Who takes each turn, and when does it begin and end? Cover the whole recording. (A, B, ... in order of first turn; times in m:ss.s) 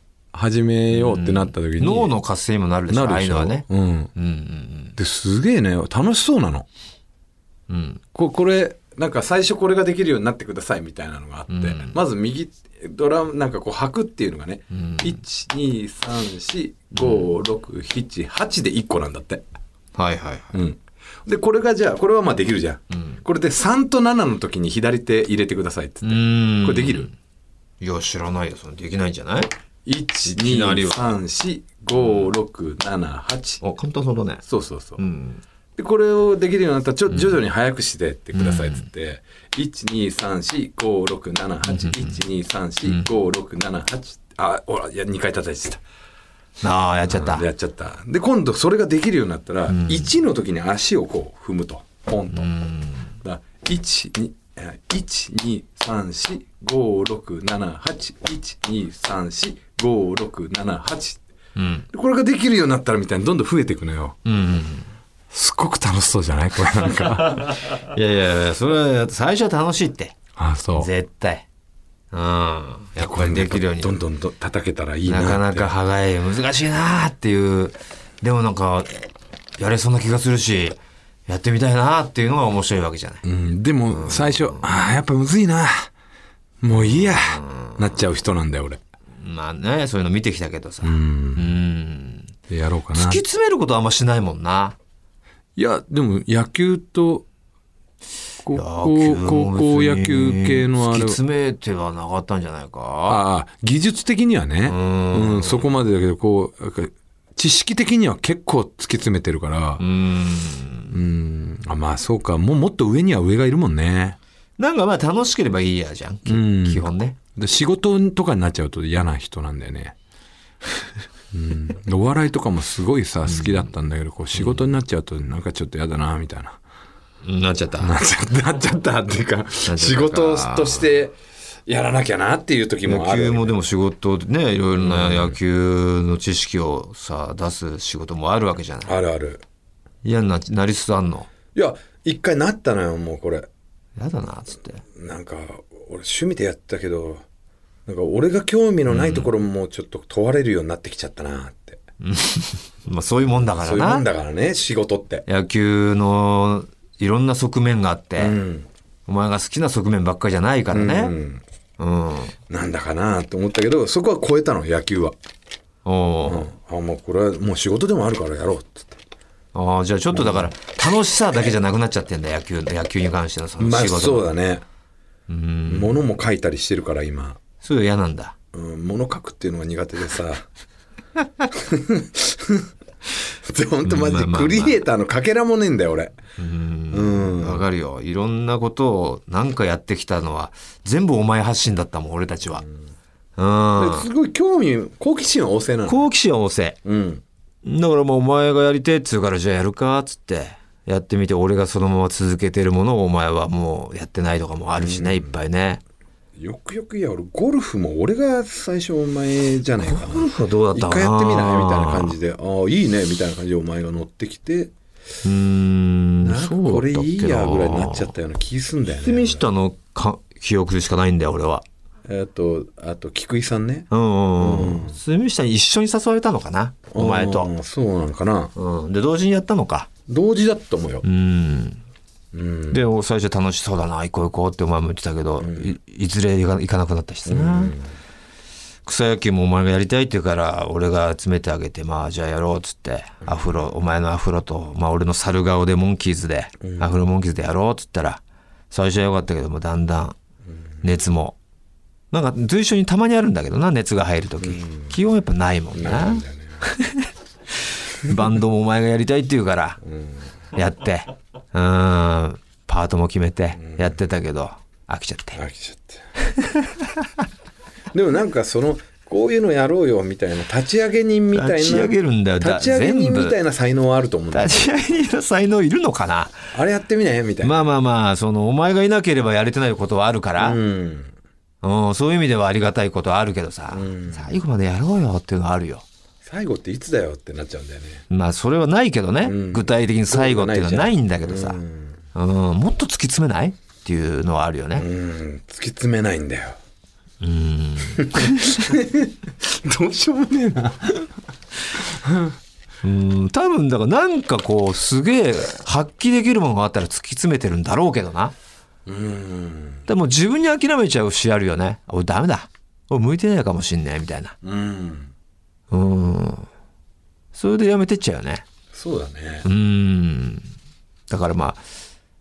0:00.3-0:02.1 A
0:00.9-0:04.9 B
0:02.9-0:04.1 A
0:05.0-0:06.7 A
0:07.7-0:08.0 B
0:08.1-0:19.4 A
0:11.5-0:12.0 B
0:14.7-0:15.2 B
0:17.0-0:17.2 B
0:19.9-0:20.6 B
0:20.5-0:27.1 A
0:26.0-0:27.1 B
0:27.8-0:29.5 B
0:29.8-0:33.6 A
0:30.3-0:31.0 B
0:32.0-0:32.3 B
0:33.6-0:34.4 B
0:34.4-0:35.0 A
0:35.0-0:35.4 B
0:35.8-0:45.8 A
0:38.3-0:38.8 B
0:41.7-0:42.2 B
0:46.6-0:47.4 B
0:47.1-0:52.5 A
0:49.7-0:50.0 B
0:52.3-0:53.1 B
0:53.2-1:01.2 A
1:01.6-1:01.8 B
1:01.9-1:04.2 A
1:04.2-1:04.9 B
1:05.3-1:07.6 A
1:07.8-1:10.2 B
1:10.4-1:10.9 A
1:10.8-1:11.4 B
1:12.1-1:13.9 B
1:13.0-1:15.7 A
1:15.0-1:23.2 B
1:23.2-1:25.9 A
1:23.9-1:24.5 B
1:26.6-1:28.8 A
1:26.7-1:27.8 B
1:29.2-1:32.3 B
1:30.8-1:31.5 A
1:32.5-1:33.2 A
1:32.9-1:34.8 B
1:35.6-1:37.2 A
1:38.4-1:41.2 A
1:38.5-1:43.2 B
1:43.1-1:49.8 A
1:44.7-1:45.6 B
1:49.8-1:50.9 B
1:50.9-1:54.2 A
1:54.6-1:57.2 B
1:56.2-1:59.9 A
2:01.3-2:06.6 A
2:07.2-2:07.9 B
2:07.8-2:11.1 A
2:09.6-2:10.8 B
2:11.6-2:13.6 A
2:12.8-2:18.9 B
2:14.8-2:15.4 A
2:18.8-2:19.4 A
2:20.0-2:21.3 B
2:21.5-2:23.5 A
2:24.0-2:24.8 B
2:24.9-2:27.2 A
2:27.8-2:31.8 A
2:28.9-2:29.3 B
2:32.0-2:34.0 B
2:33.6-2:35.2 A
2:35.2-2:38.4 B
2:38.2-2:38.7 A
2:39.1-2:41.1 B
2:40.7-2:41.4 A
2:41.8-2:42.4 B
2:42.5-2:45.2 A
2:45.8-2:46.5 B
2:46.2-2:49.0 A
2:49.5-2:54.3 B
2:50.1-2:50.5 A
2:53.6-2:54.6 A
2:55.3-2:56.0 B
2:55.7-2:57.4 A
2:57.6-2:58.3 B
2:58.5-3:00.5 A
3:01.5-3:02.7 A
3:03.4-3:06.2 A
3:03.8-3:04.8 B
3:06.4-3:12.6 B
3:06.9-3:07.6 A
3:13.4-3:14.1 B
3:13.8-3:16.0 A
3:15.9-3:16.8 B
3:16.8-3:17.2 A
3:17.6-3:25.8 B
3:24.8-3:25.3 A
3:26.4-3:34.7 A
3:29.8-3:32.1 B
3:35.2-3:38.1 B
3:36.2-3:39.4 A
3:39.0-3:41.6 B
3:42.0-3:45.0 A
3:43.9-3:47.5 B
3:46.9-3:48.5 A
3:48.6-3:49.9 B
3:50.1-3:51.0 A
3:51.0-3:51.8 B
3:52.3-3:52.8 A
3:52.7-3:57.7 B
3:55.4-3:55.7 A
3:57.2-3:57.9 A
3:58.8-4:10.2 B
4:03.2-4:03.6 A
4:06.6-4:06.9 A
4:10.8-4:11.4 B
4:12.1-4:17.1 B
4:14.4-4:14.9 A
4:15.7-4:16.6 A
4:17.6-4:19.8 B
4:19.8-4:20.3 A
4:20.5-4:25.4 B
4:23.6-4:23.9 A
4:25.3-4:26.0 A
4:26.3-4:27.0 B
4:27.9-4:34.6 A
4:31.3-4:33.4 B
4:34.3-4:36.4 B
4:36.5-4:37.7 A
4:37.4-4:40.6 B
4:40.4-4:41.1 A
4:41.6-4:45.8 B
4:43.7-4:44.3 A
4:46.2-4:48.0 A
4:48.1-4:51.6 B
4:49.2-4:52.0 A
4:52.1-4:54.9 B
4:54.8-4:56.6 A
4:57.2-4:58.7 B
4:58.0-5:01.1 A
5:01.8-5:02.3 A
5:02.8-5:08.3 B
5:08.8-5:09.8 A
5:09.9-5:14.3 B
5:14.4-5:15.1 A
5:15.7-5:16.5 B
5:17.3-5:18.4 B
5:18.7-5:19.4 A
5:19.4-5:20.5 B
5:21.1-5:21.6 B